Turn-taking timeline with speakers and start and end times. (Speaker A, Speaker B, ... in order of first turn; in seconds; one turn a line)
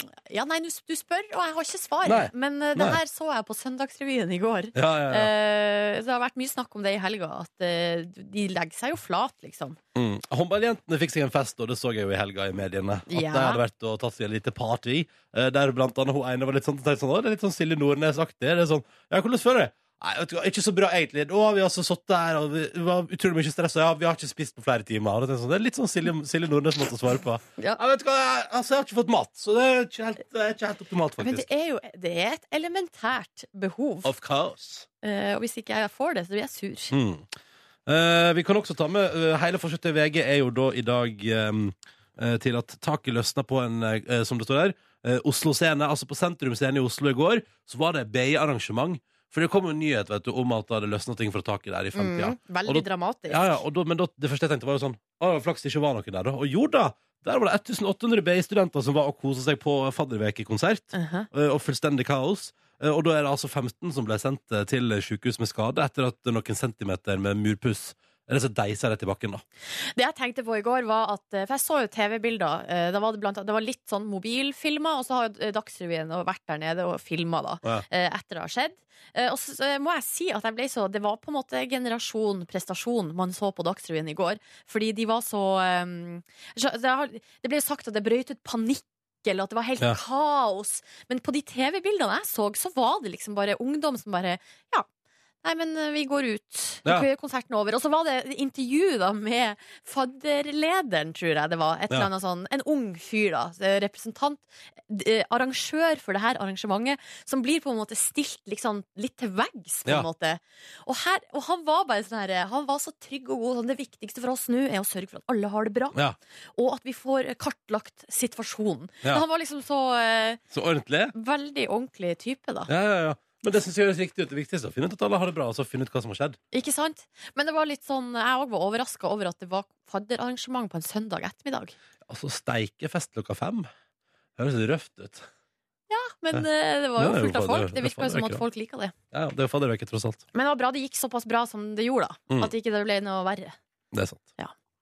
Speaker A: 0.3-9.8
Speaker B: 2.0-3.0
Speaker B: 4.7-5.3
Speaker B: 9.9-31.5
Speaker A: 13.1-13.6
Speaker A: 31.2-34.1
Speaker B: 34.0-34.9
Speaker A: 35.0-37.0
Speaker B: 36.9-37.3
Speaker B: 37.9-69.4
Speaker A: 51.9-53.6
Speaker A: 60.9-61.3
Speaker A: 70.0-94.9
Speaker A: 95.4-116.0
Speaker A: 116.6-120.4
Speaker B: 120.5-121.1
Speaker A: 121.1-122.7
Speaker B: 122.7-126.4
Speaker A: 126.5-131.7
Speaker B: 132.1-133.7
Speaker B: 134.4-135.3
Speaker A: 135.9-138.9
Speaker B: 137.0-138.4
Speaker B: 139.1-140.2
Speaker A: 140.3-143.6
Speaker B: 143.9-144.3